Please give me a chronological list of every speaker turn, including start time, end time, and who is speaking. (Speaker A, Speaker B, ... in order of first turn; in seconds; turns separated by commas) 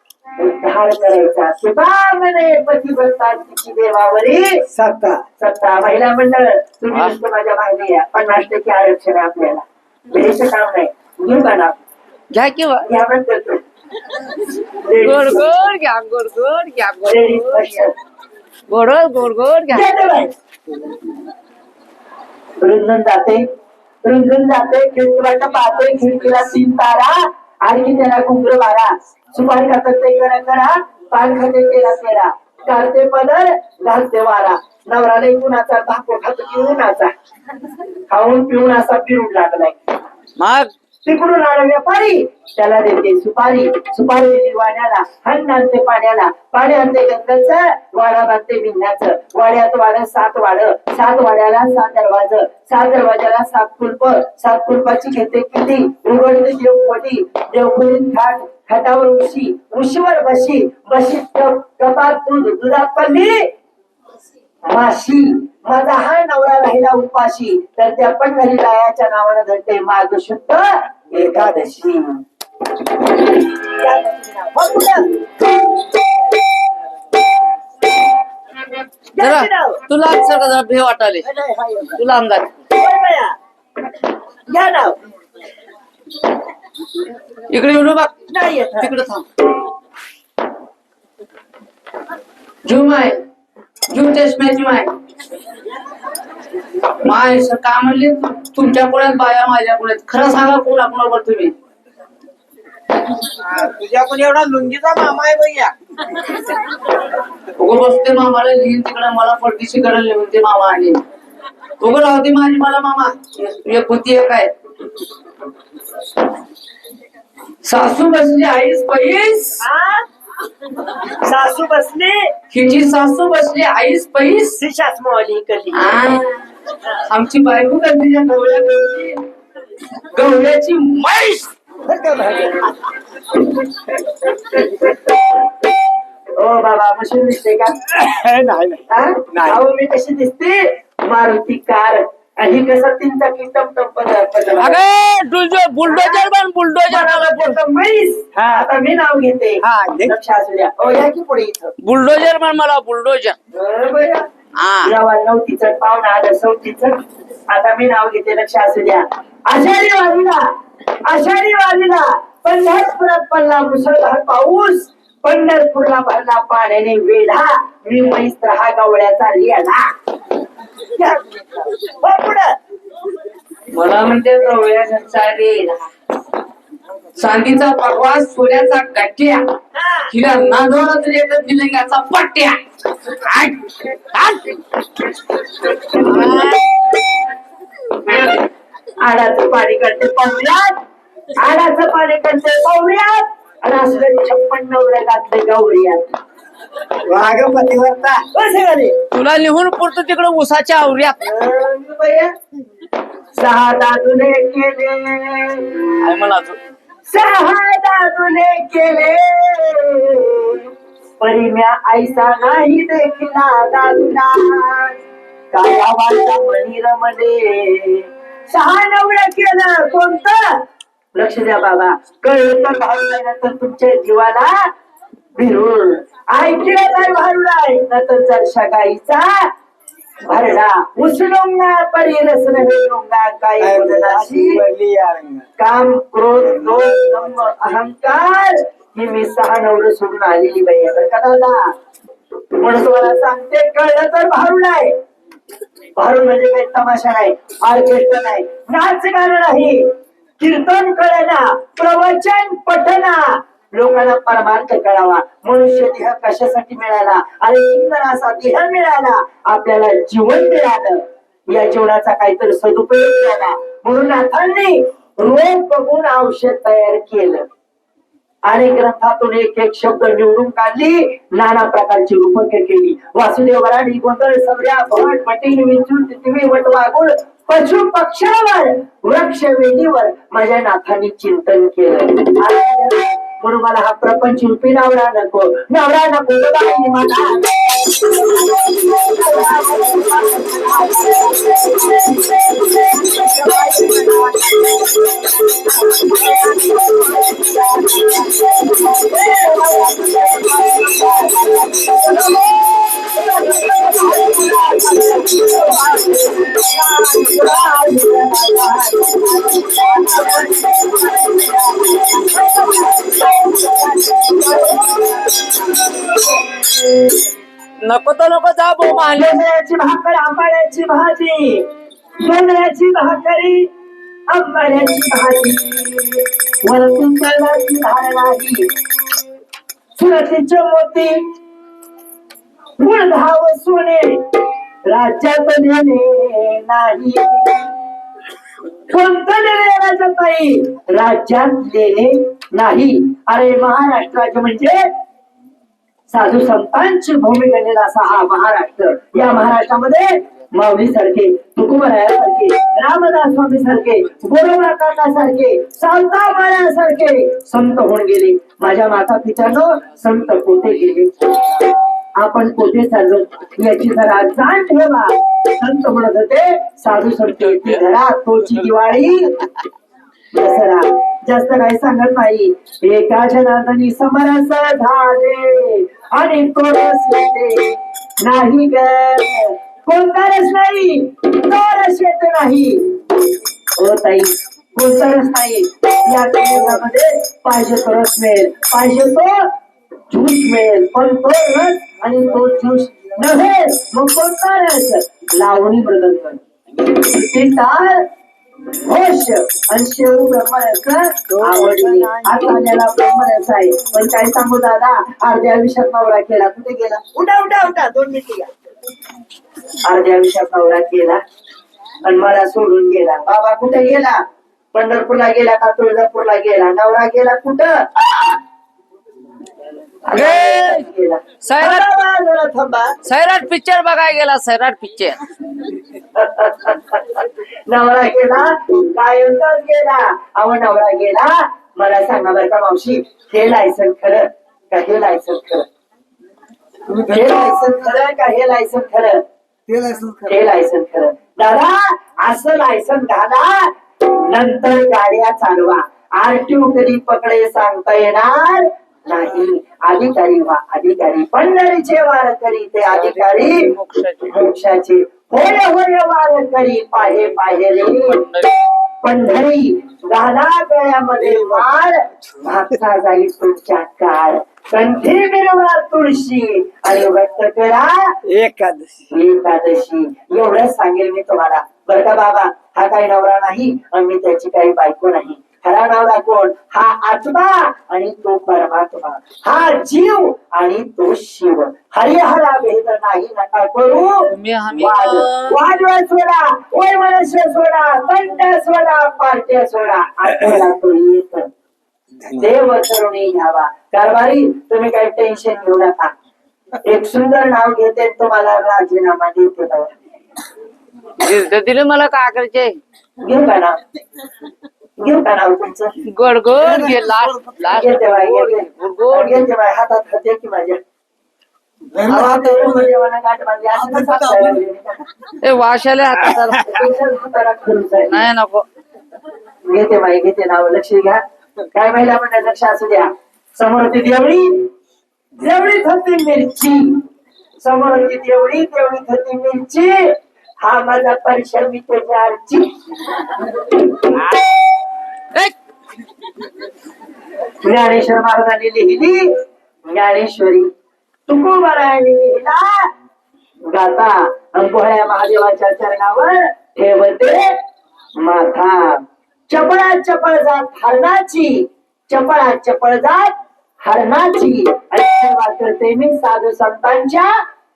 Speaker A: 0.4-4.7, Speaker B: 4.7-5.2, Speaker A: 5.4-11.8, Speaker C: 12.3-12.9, Speaker A: 12.9-13.6, Speaker A: 14.8-15.5, Speaker C: 15.0-17.8, Speaker A: 17.1-17.9, Speaker C: 18.7-19.9, Speaker A: 19.7-20.3, Speaker A: 22.6-23.4, Speaker A: 24.0-37.1, Speaker C: 25.8-26.4, Speaker A: 38.1-39.8, Speaker C: 40.4-40.7, Speaker A: 41.0-63.5, Speaker A: 64.7-72.2, Speaker A: 73.4-76.1, Speaker A: 79.2-79.8, Speaker C: 79.2-81.2, Speaker A: 81.2-82.0, Speaker C: 82.0-82.6, Speaker A: 82.7-83.4, Speaker A: 84.5-85.0, Speaker C: 87.5-88.1, Speaker A: 88.3-88.9, Speaker C: 88.8-89.3, Speaker C: 92.6-93.2, Speaker C: 93.9-94.9, Speaker C: 97.0-101.5, Speaker B: 103.4-105.7, Speaker C: 107.6-111.0, Speaker C: 111.8-114.5, Speaker C: 117.6-119.6, Speaker A: 119.6-120.0, Speaker A: 120.9-122.3, Speaker C: 122.5-124.6, Speaker A: 124.6-126.0, Speaker C: 125.7-126.5, Speaker C: 127.0-129.2, Speaker C: 130.1-131.5, Speaker A: 131.8-132.7, Speaker A: 136.4-137.7, Speaker B: 137.9-139.6, Speaker A: 138.9-144.8, Speaker C: 144.6-147.6, Speaker A: 145.8-146.3, Speaker A: 146.8-151.7, Speaker B: 148.3-148.6, Speaker B: 149.6-150.1, Speaker C: 151.8-153.3, Speaker A: 153.5-154.2, Speaker C: 154.6-154.9, Speaker A: 154.8-157.0, Speaker A: 157.5-160.5, Speaker A: 161.1-169.9, Speaker A: 170.9-172.5, Speaker C: 173.7-175.9, Speaker C: 177.2-179.5, Speaker A: 179.7-180.1, Speaker C: 180.1-182.6, Speaker C: 183.1-184.6, Speaker C: 185.9-186.7, Speaker A: 189.0-190.8, Speaker A: 191.3-196.1, Speaker B: 197.0-198.2, Speaker A: 198.3-199.0, Speaker C: 199.1-201.2, Speaker A: 201.2-202.3, Speaker A: 203.3-205.8, Speaker C: 206.0-206.6, Speaker A: 207.1-215.0, Speaker A: 215.5-220.6, Speaker A: 221.2-224.5, Speaker A: 225.3-229.5, Speaker A: 230.3-234.6, Speaker B: 233.6-235.4, Speaker A: 235.6-241.7, Speaker A: 242.5-244.9, Speaker A: 245.9-267.4, Speaker A: 268.4-295.0, Speaker A: 295.6-316.2, Speaker C: 317.8-319.3, Speaker A: 319.0-321.7, Speaker A: 322.2-323.7, Speaker A: 324.3-328.7, Speaker A: 329.9-331.2, Speaker A: 332.8-334.2, Speaker A: 334.9-337.7, Speaker A: 338.9-344.9, Speaker A: 346.1-361.3, Speaker A: 362.2-369.4, Speaker C: 367.5-367.8, Speaker A: 370.3-382.9, Speaker A: 383.8-389.5, Speaker A: 390.1-398.1, Speaker A: 398.7-408.5, Speaker B: 401.3-402.7, Speaker A: 409.8-411.2, Speaker A: 412.0-414.2, Speaker A: 414.7-418.4, Speaker A: 420.0-422.9, Speaker C: 420.1-420.8, Speaker C: 421.4-421.9, Speaker C: 423.0-425.2, Speaker A: 426.1-435.7, Speaker A: 436.9-439.2, Speaker B: 439.7-440.3, Speaker A: 440.3-453.7, Speaker C: 452.9-454.3, Speaker A: 454.3-458.2, Speaker C: 457.2-458.5, Speaker A: 459.0-468.1, Speaker B: 461.3-461.6, Speaker B: 468.2-469.0, Speaker A: 469.1-491.5, Speaker C: 484.3-485.6, Speaker A: 492.4-496.1, Speaker A: 496.8-499.9, Speaker C: 501.2-502.8, Speaker A: 503.2-503.8, Speaker A: 505.0-505.9, Speaker C: 506.0-509.5, Speaker B: 506.6-507.5, Speaker A: 507.7-510.8, Speaker B: 511.9-512.7, Speaker A: 512.0-515.0, Speaker B: 513.8-514.6, Speaker C: 515.4-516.9, Speaker A: 516.5-518.3, Speaker C: 518.1-518.6, Speaker A: 519.6-521.2, Speaker A: 521.7-524.6, Speaker A: 525.4-527.0, Speaker A: 527.6-532.7, Speaker C: 534.1-534.4, Speaker A: 537.6-539.3, Speaker A: 539.9-540.7, Speaker A: 541.3-542.9, Speaker A: 543.7-547.6, Speaker A: 548.2-557.4